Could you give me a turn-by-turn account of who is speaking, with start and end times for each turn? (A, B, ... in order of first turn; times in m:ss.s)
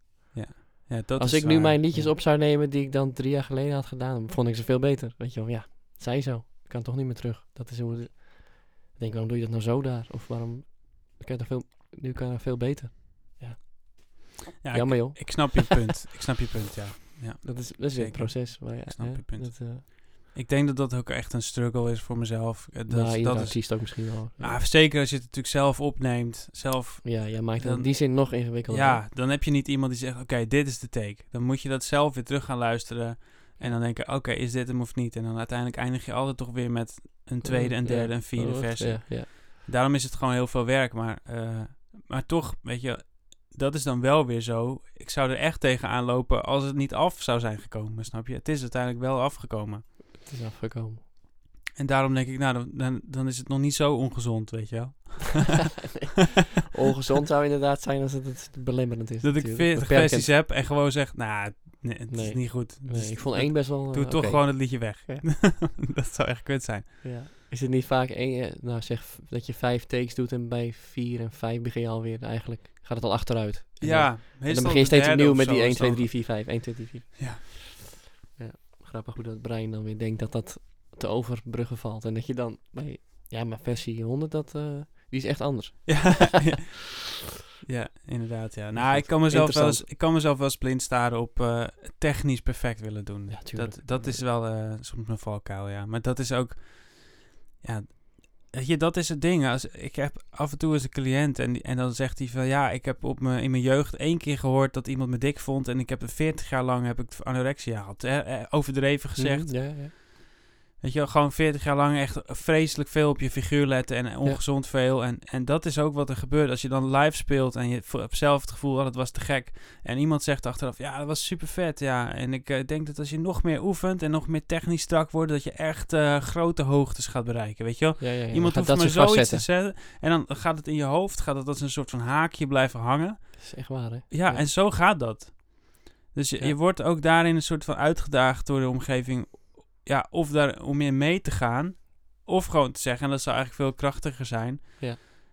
0:00.3-0:02.1 A
0:01.2-0:15.8 B
0:14.6-0:49.9 A
0:17.4-0:19.8 B
0:22.9-0:24.6 B
0:27.0-0:29.0 B
0:37.4-0:39.3 B
0:50.2-0:51.0 B
0:51.7-0:55.8 A
0:55.9-1:00.3 B
0:59.2-1:07.0 A
1:02.1-1:05.3 B
1:07.0-1:17.7 B
1:13.8-1:16.6 A
1:18.3-1:26.4 B
1:25.8-1:26.8 A
1:27.6-1:50.1 A
1:28.7-1:29.9 B
1:33.3-1:34.2 B
1:49.2-1:49.9 B
1:50.8-2:25.1 A
2:08.0-2:09.4 B
2:13.4-2:14.5 B